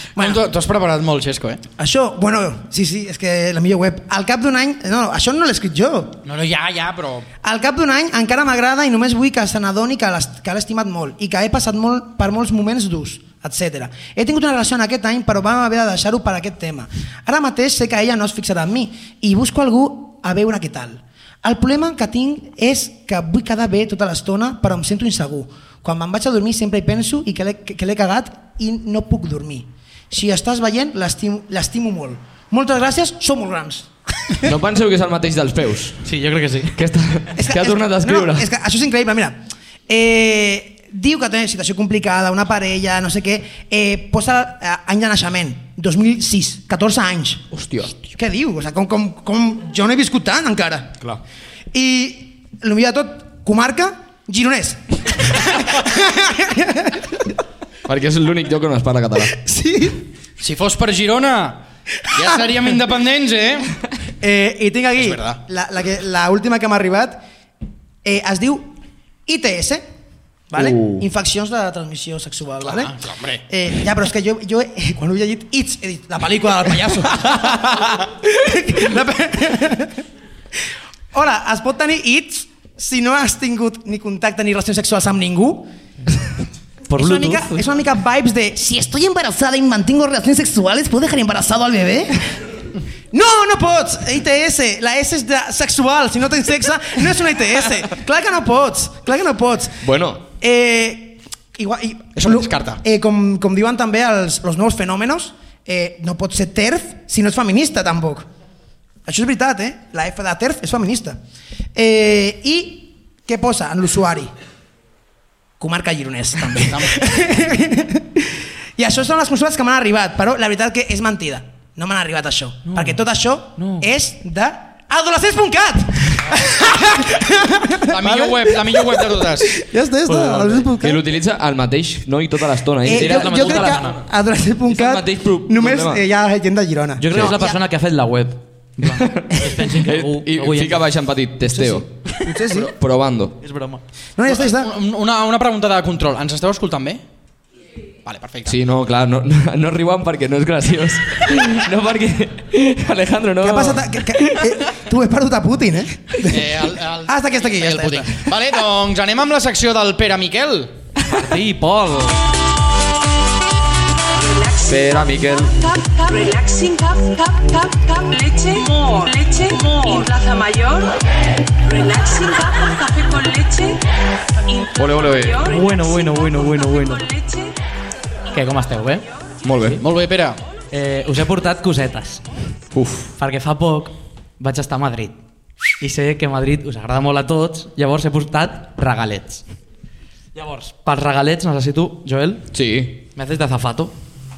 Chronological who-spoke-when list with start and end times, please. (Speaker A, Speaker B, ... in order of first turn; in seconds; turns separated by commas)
Speaker A: 0.2-1.6, Speaker B: 1.8-6.2, Speaker A: 6.2-7.3, Speaker B: 7.4-34.5, Speaker C: 34.4-36.0, Speaker D: 36.0-36.8, Speaker C: 36.8-38.5, Speaker B: 37.4-51.0, Speaker C: 47.5-47.9, Speaker B: 51.7-57.2, Speaker C: 57.9-59.4, Speaker B: 59.3-60.0, Speaker A: 60.4-63.8, Speaker B: 64.2-67.2, Speaker A: 65.0-65.4, Speaker B: 68.0-68.8, Speaker B: 69.3-69.8, Speaker B: 70.5-72.9, Speaker C: 70.5-71.0, Speaker A: 72.6-73.4, Speaker B: 73.5-80.0, Speaker B: 81.1-86.2, Speaker D: 86.9-87.6, Speaker B: 86.9-92.4, Speaker B: 93.1-108.3, Speaker C: 99.8-100.2, Speaker A: 102.2-102.8, Speaker B: 109.1-111.2, Speaker B: 111.8-114.3, Speaker B: 115.6-131.0, Speaker A: 116.5-117.0, Speaker D: 122.7-123.0, Speaker D: 123.6-123.9, Speaker A: 127.9-129.6, Speaker D: 130.1-130.7, Speaker C: 130.8-134.0, Speaker B: 132.8-137.6, Speaker D: 132.9-134.0, Speaker C: 134.7-136.0, Speaker D: 137.0-140.8, Speaker C: 138.9-143.4, Speaker B: 141.5-142.7, Speaker D: 143.4-143.8, Speaker B: 144.2-144.7, Speaker A: 144.3-147.0, Speaker A: 148.1-148.6, Speaker C: 148.5-154.6, Speaker B: 153.4-156.6, Speaker A: 156.2-160.7, Speaker B: 157.1-158.3, Speaker D: 161.1-162.2, Speaker E: 164.1-171.0, Speaker C: 164.7-165.6, Speaker E: 171.6-173.8, Speaker E: 174.5-177.6, Speaker C: 174.8-175.5, Speaker D: 175.5-177.0, Speaker D: 178.3-179.1, Speaker C: 179.4-179.8, Speaker A: 179.8-180.4, Speaker D: 180.7-182.2, Speaker C: 182.7-183.1, Speaker D: 183.2-185.2, Speaker D: 185.8-189.4, Speaker D: 190.3-192.4, Speaker C: 192.5-193.0, Speaker D: 193.1-193.9